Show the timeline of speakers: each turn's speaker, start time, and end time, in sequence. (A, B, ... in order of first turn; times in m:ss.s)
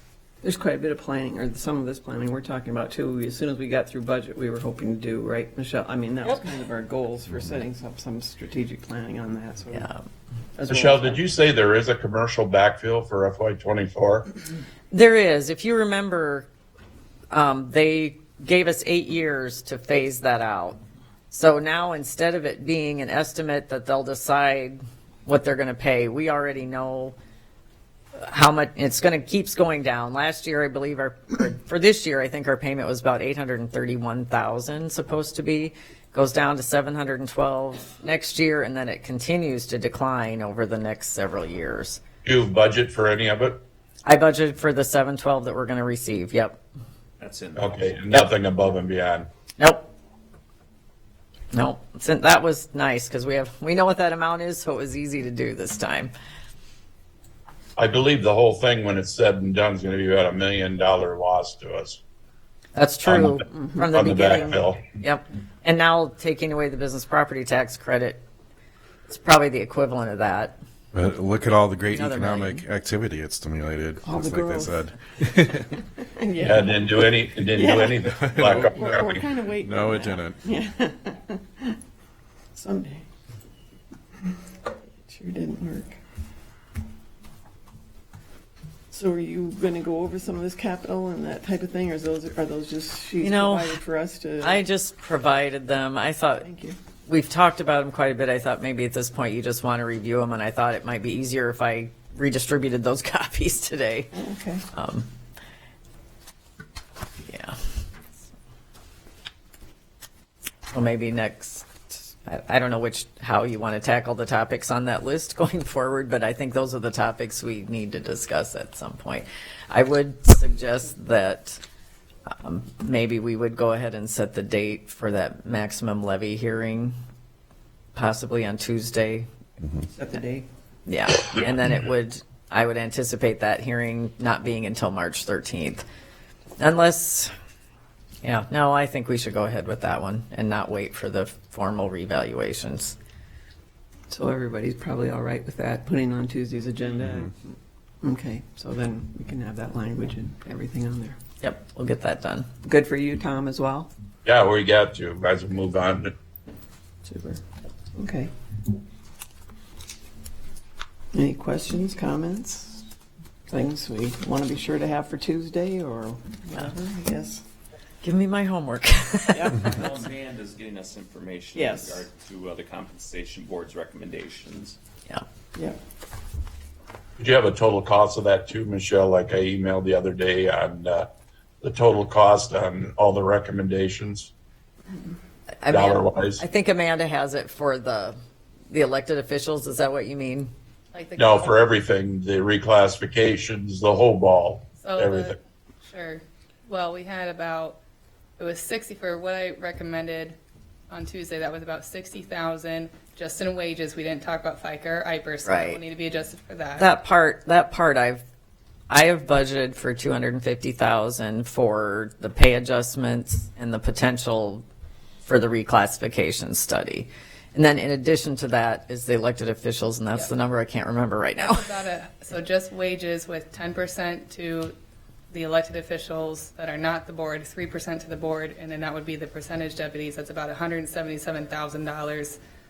0:00.4-0:09.9 A
0:09.7-0:10.0 B
0:10.6-0:11.2 A
0:10.7-0:14.3 C
0:14.9-0:16.5 B
0:17.3-0:20.8 B
0:21.3-0:27.1 B
0:28.2-0:42.0 B
0:42.2-0:43.6 C
0:44.0-0:46.6 B
0:47.2-0:48.2 D
0:47.6-0:49.3 C
0:49.6-0:49.9 B
0:51.5-0:56.1 B
0:57.8-1:02.0 C
1:02.7-1:08.2 B
1:03.0-1:03.3 C
1:03.9-1:04.8 C
1:09.1-1:10.6 B
1:10.9-1:15.8 E
1:11.9-1:12.6 B
1:14.0-1:14.7 A
1:16.2-1:21.8 A
1:16.4-1:19.2 C
1:18.1-1:20.4 E
1:22.5-1:23.0 A
1:25.0-1:26.0 A
1:28.9-1:34.6 A
1:33.2-1:33.8 B
1:34.4-1:36.4 B
1:36.4-1:36.8 A
1:37.1-1:44.1 B
1:44.1-1:44.6 A
1:44.7-1:45.1 B
1:47.3-1:47.6 B
1:50.7-2:01.6 B
2:02.4-2:07.0 B
2:07.9-2:09.3 B
2:09.9-2:10.5 A
2:10.9-2:15.8 B
2:16.6-2:17.3 B
2:18.2-2:23.0 B
2:24.1-2:31.2 A
2:31.4-2:32.5 B
2:32.6-2:33.9 A
2:34.2-2:36.1 C
2:37.0-2:37.4 A
2:38.0-2:38.3 A
2:41.1-2:42.8 A
2:43.5-2:47.4 A
2:48.0-2:49.8 B
2:49.6-2:54.8 D
2:51.6-2:52.0 A
2:57.2-3:01.1 C
3:01.6-3:04.3 C
3:05.6-3:08.2 B
3:05.7-3:06.4 C
3:08.7-3:10.5 B
3:10.9-3:11.7 F
3:11.2-3:15.4 C
3:14.8-3:17.8 F
3:18.4-3:20.4 F
3:20.9-3:26.9 F
3:25.4-3:25.8 B
3:26.8-3:28.2 B
3:28.9-3:34.6 B
3:35.2-3:41.6 B
3:41.4-3:44.7 F
3:45.3-3:52.4 F